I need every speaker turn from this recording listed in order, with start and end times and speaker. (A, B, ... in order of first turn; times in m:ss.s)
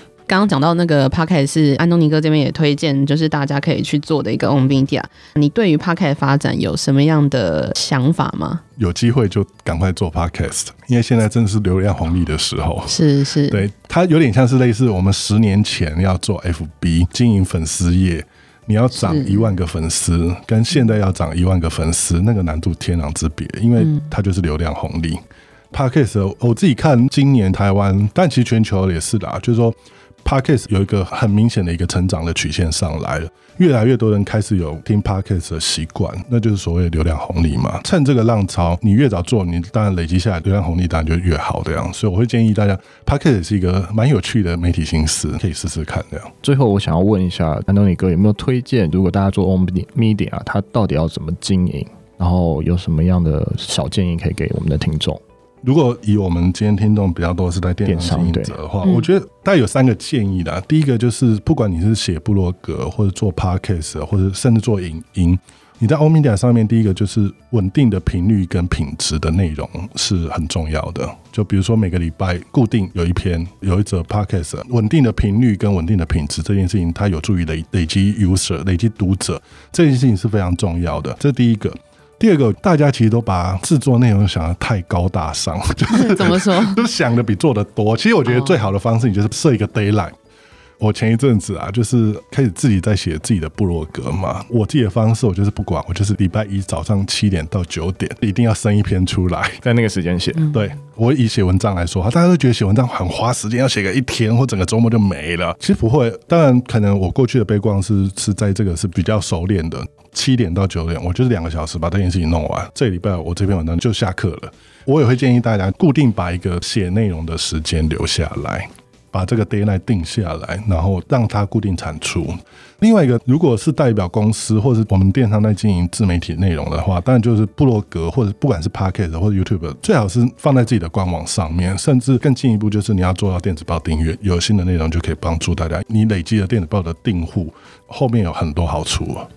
0:00.3-0:08.6 A
0:08.8-0:46.3 B
0:12.9-0:13.6 A
0:19.0-0:19.4 A
0:46.4-0:55.2 C
0:55.6-1:30.2 B
0:57.8-0:58.6 C
1:25.9-1:26.8 A
1:30.8-1:39.6 B
1:39.6-1:40.5 C
1:40.4-2:19.3 B